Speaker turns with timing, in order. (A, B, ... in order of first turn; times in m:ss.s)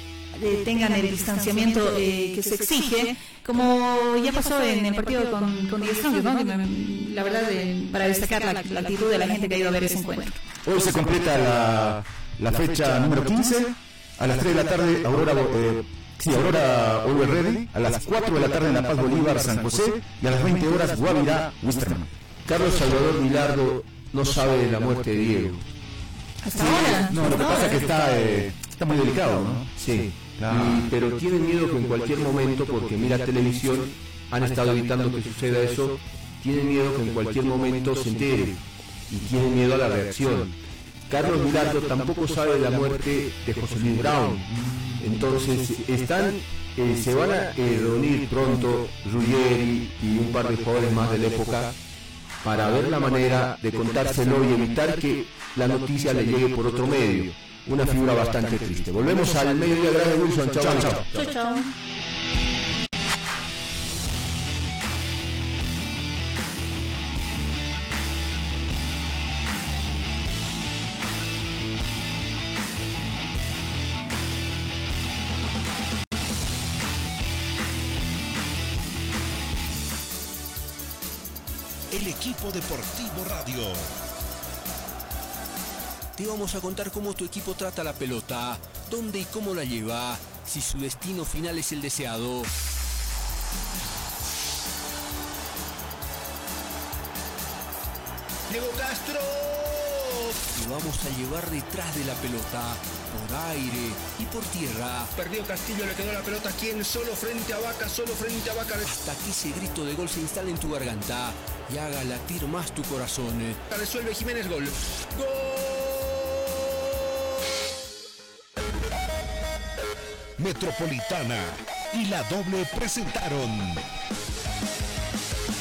0:00.3-0:10.4 A
0:10.6-0:22.1 B
0:22.4-0:25.6 C
0:26.4-0:27.8 A
0:26.5-0:30.9 B
0:29.8-0:40.6 C
0:41.1-0:51.7 C
0:52.4-1:01.1 C
1:00.7-1:01.0 B
1:01.1-1:01.7 A
1:21.9-1:23.9 D
1:26.1-1:32.5 E
1:38.5-1:40.3 F
1:40.5-1:45.1 E
1:45.2-1:48.9 F
1:48.8-1:53.6 E
1:53.7-1:56.5 F
2:00.4-2:03.8 D